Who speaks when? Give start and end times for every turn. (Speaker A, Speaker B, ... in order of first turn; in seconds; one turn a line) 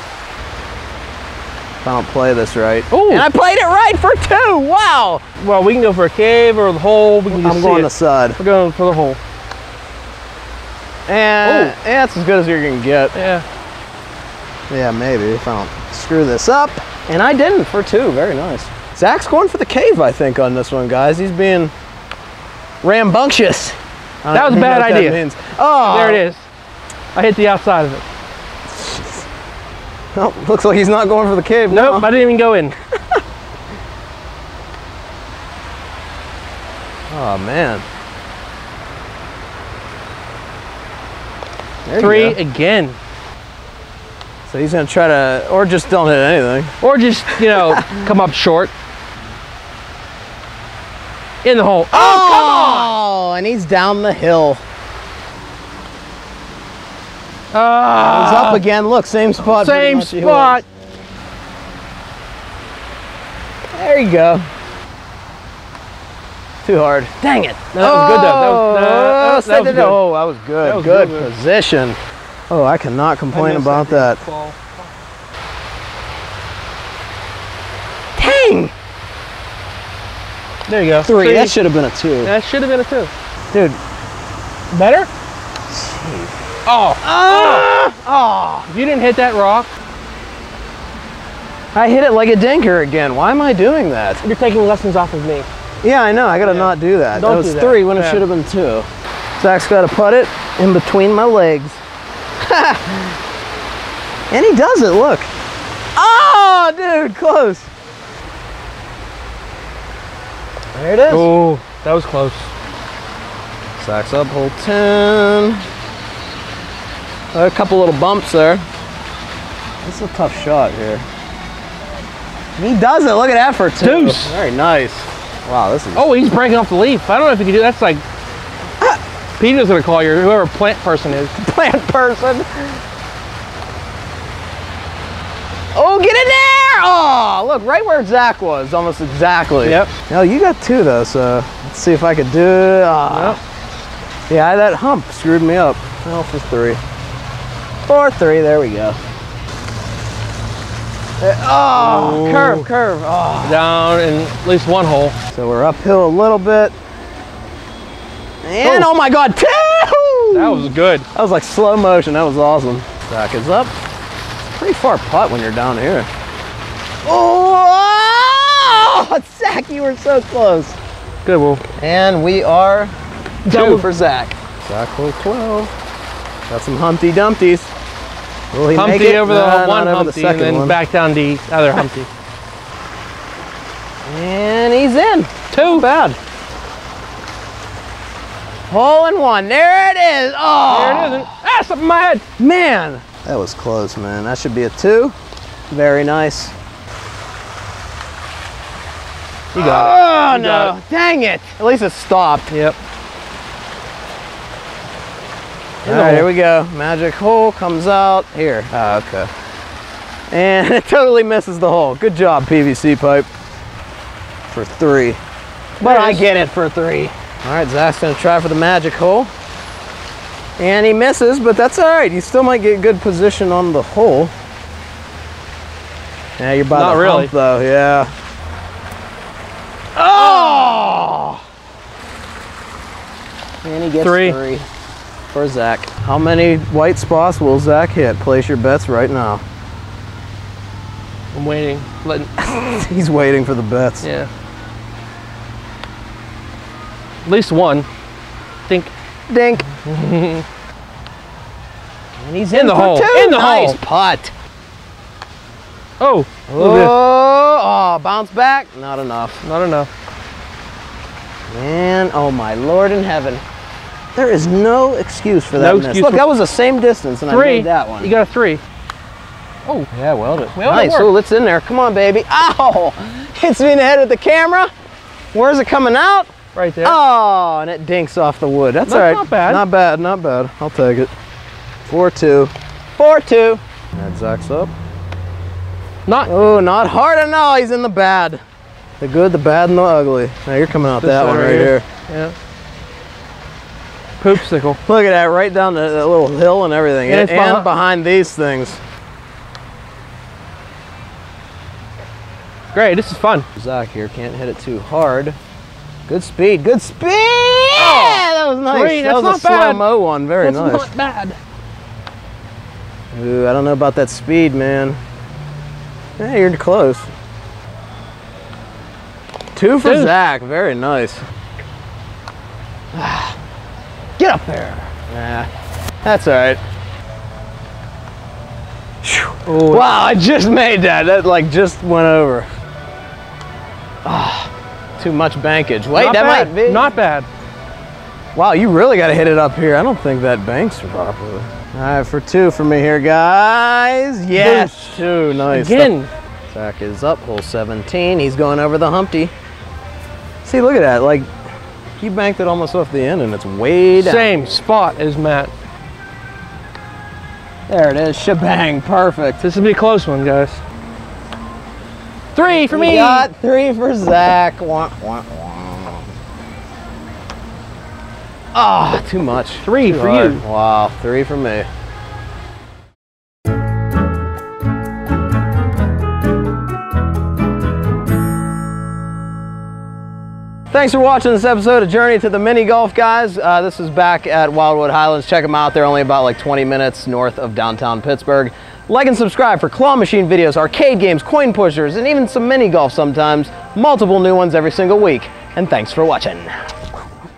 Speaker A: 1.8-5.2
Speaker B: 2.9-3.3
Speaker B: 5.4-9.2
Speaker A: 7.3-8.4
Speaker A: 11.1-13.2
Speaker B: 11.4-11.8
Speaker B: 13.2-13.4
Speaker A: 14.7-21.7
Speaker A: 22.8-26.2
Speaker B: 24.3-25.2
Speaker B: 25.9-26.5
Speaker B: 27.1-28.1
Speaker A: 28.7-29.2
Speaker A: 30.1-32.1
Speaker B: 31.7-32.8
Speaker A: 37.1-37.9
Speaker A: 41.9-42.4
Speaker B: 42.0-43.0
Speaker A: 44.5-46.7
Speaker B: 46.8-48.7
Speaker A: 47.4-48.0
Speaker B: 51.4-52.9
Speaker A: 51.9-54.6
Speaker B: 57.5-58.6
Speaker A: 58.0-60.6
Speaker B: 59.5-60.6
Speaker A: 63.7-64.5
Speaker A: 66.6-72.0
Speaker B: 67.7-70.0
Speaker B: 70.6-71.3
Speaker A: 72.5-74.2
Speaker B: 73.3-74.8
Speaker A: 78.2-78.7
Speaker B: 80.7-81.6
Speaker A: 81.0-82.3
Speaker B: 82.2-83.1
Speaker A: 83.5-83.8
Speaker B: 84.7-85.1
Speaker A: 85.7-86.4
Speaker B: 86.7-87.7
Speaker A: 87.0-88.7
Speaker B: 88.7-89.7
Speaker A: 91.8-94.2
Speaker B: 94.2-95.5
Speaker A: 95.8-98.9
Speaker B: 96.4-98.2
Speaker A: 99.4-101.8
Speaker A: 102.4-103.2
Speaker A: 104.3-105.3
Speaker A: 106.0-107.7
Speaker A: 110.7-111.3
Speaker B: 111.1-112.5
Speaker A: 113.8-115.6
Speaker A: 117.3-118.6
Speaker A: 119.8-121.0
Speaker A: 122.6-126.1
Speaker B: 123.8-124.4
Speaker B: 126.0-128.0
Speaker B: 129.4-131.3
Speaker A: 131.3-132.8
Speaker A: 135.7-143.4
Speaker B: 139.6-139.9
Speaker B: 143.1-143.4
Speaker A: 144.3-146.8
Speaker A: 147.9-149.0
Speaker A: 151.2-153.6
Speaker B: 151.8-152.7
Speaker B: 153.4-155.2
Speaker A: 155.3-156.7
Speaker A: 158.4-163.7
Speaker B: 158.6-158.9
Speaker B: 160.3-161.1
Speaker A: 164.6-166.1
Speaker A: 167.1-170.8
Speaker B: 171.2-171.6
Speaker A: 171.8-172.9
Speaker B: 173.5-173.9
Speaker A: 173.5-175.7
Speaker A: 176.5-177.7
Speaker A: 178.5-180.8
Speaker B: 178.7-182.1
Speaker A: 184.1-186.2
Speaker B: 185.5-185.9
Speaker A: 188.7-191.3
Speaker B: 190.7-192.2
Speaker A: 192.4-195.2
Speaker A: 195.7-196.5
Speaker B: 199.5-200.8
Speaker A: 199.6-202.5
Speaker B: 202.5-202.8
Speaker A: 205.8-209.3
Speaker B: 205.9-206.3
Speaker A: 210.3-213.3
Speaker A: 214.5-215.2
Speaker A: 215.8-219.3
Speaker B: 215.8-216.3
Speaker A: 220.6-224.3
Speaker A: 226.4-228.1
Speaker B: 226.7-227.3
Speaker A: 230.0-231.4
Speaker B: 230.2-231.0
Speaker A: 233.6-234.7
Speaker B: 234.0-234.4
Speaker A: 235.3-239.4
Speaker B: 241.3-242.3
Speaker A: 242.4-244.1
Speaker B: 244.0-244.3
Speaker B: 247.2-247.9
Speaker B: 248.7-248.9
Speaker A: 249.3-249.7
Speaker B: 249.8-250.4
Speaker A: 252.2-254.3
Speaker B: 252.5-253.8
Speaker B: 256.0-257.0
Speaker A: 256.5-259.4
Speaker B: 259.4-259.9
Speaker A: 261.5-263.4
Speaker A: 264.2-268.1
Speaker B: 265.6-266.2
Speaker B: 267.3-268.6
Speaker A: 269.9-274.7
Speaker B: 270.6-271.1
Speaker A: 275.3-281.1
Speaker B: 276.6-277.0
Speaker B: 278.9-279.6
Speaker A: 281.9-284.7
Speaker B: 286.1-286.3
Speaker A: 286.3-288.4
Speaker A: 289.0-291.9
Speaker B: 291.0-292.3
Speaker B: 294.2-294.8
Speaker A: 294.9-298.8
Speaker B: 297.1-297.7
Speaker B: 302.7-303.5
Speaker A: 303.6-305.4
Speaker A: 306.1-310.9
Speaker B: 307.8-309.8
Speaker B: 310.4-311.4
Speaker A: 313.1-315.0
Speaker A: 316.2-317.1
Speaker A: 319.6-321.2
Speaker B: 319.8-320.1
Speaker A: 322.9-323.4
Speaker A: 324.2-325.5
Speaker A: 326.0-326.6
Speaker A: 329.0-332.5
Speaker B: 329.5-329.9
Speaker A: 334.1-337.0
Speaker B: 335.9-337.3
Speaker A: 338.4-345.9
Speaker B: 344.4-346.1
Speaker A: 346.5-349.3
Speaker A: 350.4-351.3
Speaker A: 352.0-354.4
Speaker B: 354.0-355.5
Speaker A: 357.7-359.4
Speaker B: 359.4-360.6
Speaker B: 362.4-363.3
Speaker A: 362.5-366.1
Speaker A: 368.5-371.7
Speaker B: 369.6-370.4
Speaker A: 380.7-396.8